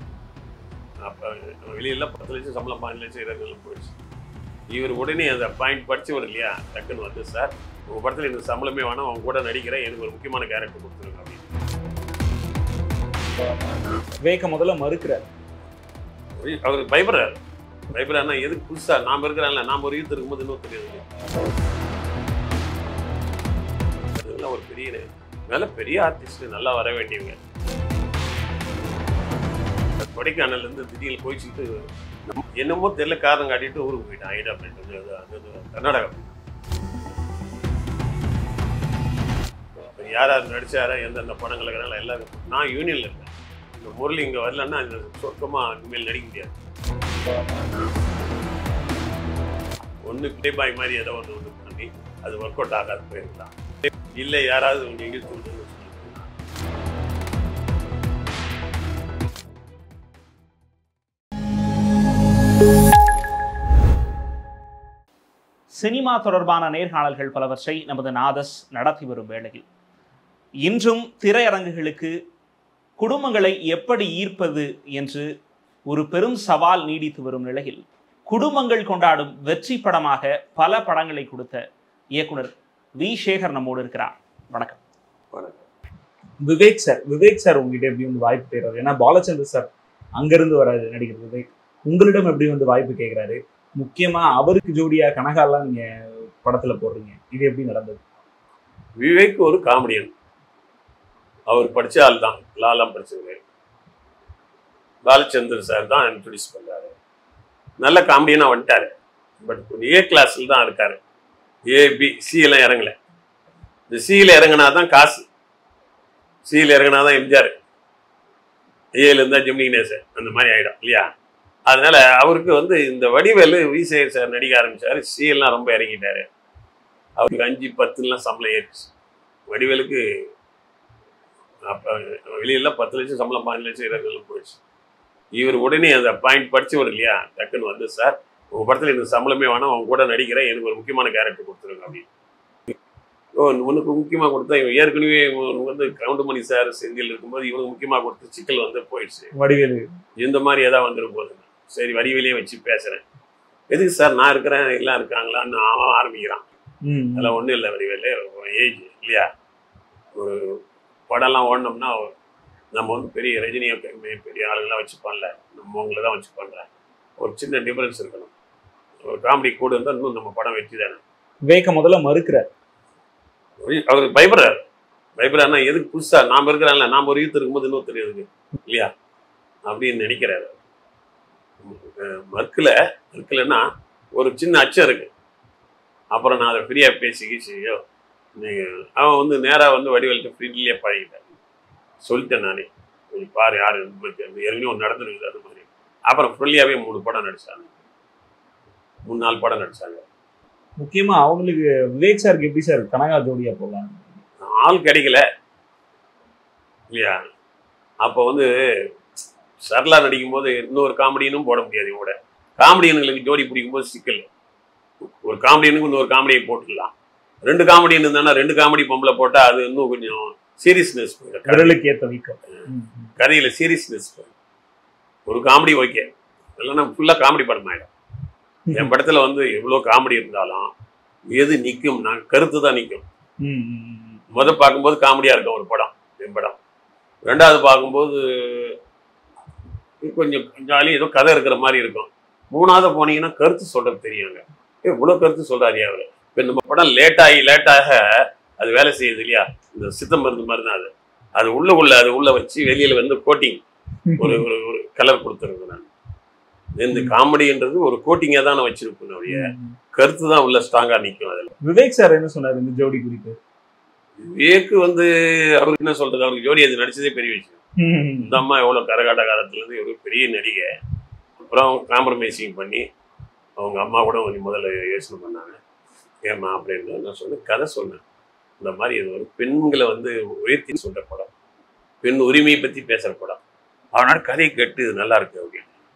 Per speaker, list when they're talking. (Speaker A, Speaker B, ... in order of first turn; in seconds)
Speaker A: 1.0-4.0, 4.7-11.5, 16.4-17.4, 17.9-21.1, 24.1-27.4, 30.0-31.7, 32.3-36.4, 40.0-46.5, 50.0-53.5, 54.1-56.3, 85.3-85.7, 99.0-100.1, 101.5-103.4, 105.0-106.9, 107.8-111.0, 111.7-113.0, 113.9-115.2, 116.5-117.5, 119.0-121.1, 121.7-126.3, 127.2-128.9, 129.5-130.0, 131.7-134.6, 135.3-142.1, 143.3-149.3, 150.2-153.0, 153.7-156.4, 157.2-159.3, 160.1-162.1, 162.7-166.7, 167.2-168.3, 169.0-171.0, 173.6-174.6, 175.2-178.9, 179.7-180.5, 181.6-185.1, 186.1-187.8, 188.4-191.3, 192.0-197.8, 199.1-200.0, 204.4-205.2, 206.9-207.2, 208.0-208.5, 209.6-214.2, 215.0-216.9, 217.4-221.8, 223.2-224.3, 225.3-227.9, 228.7-230.7, 231.3-233.0, 234.3-236.6, 237.2-238.8, 240.0-253.6, 254.2-255.9, 256.8-261.5, 264.2-267.6, 268.2-270.7, 271.4-272.9, 273.6-275.6, 276.2-278.0, 278.6-281.3, 282.0-283.4, 283.9-285.6
Speaker B: 14.2-15.2, 65.7-69.7, 70.7-72.1, 73.0-75.3, 75.9-81.6, 82.1-84.8, 86.4-98.0, 149.3-149.8, 156.8-157.3, 171.5-172.4, 200.8-204.1, 221.5-223.1, 233.4-234.2, 254.1-254.4, 259.3-259.7, 261.6-263.4, 267.8-268.4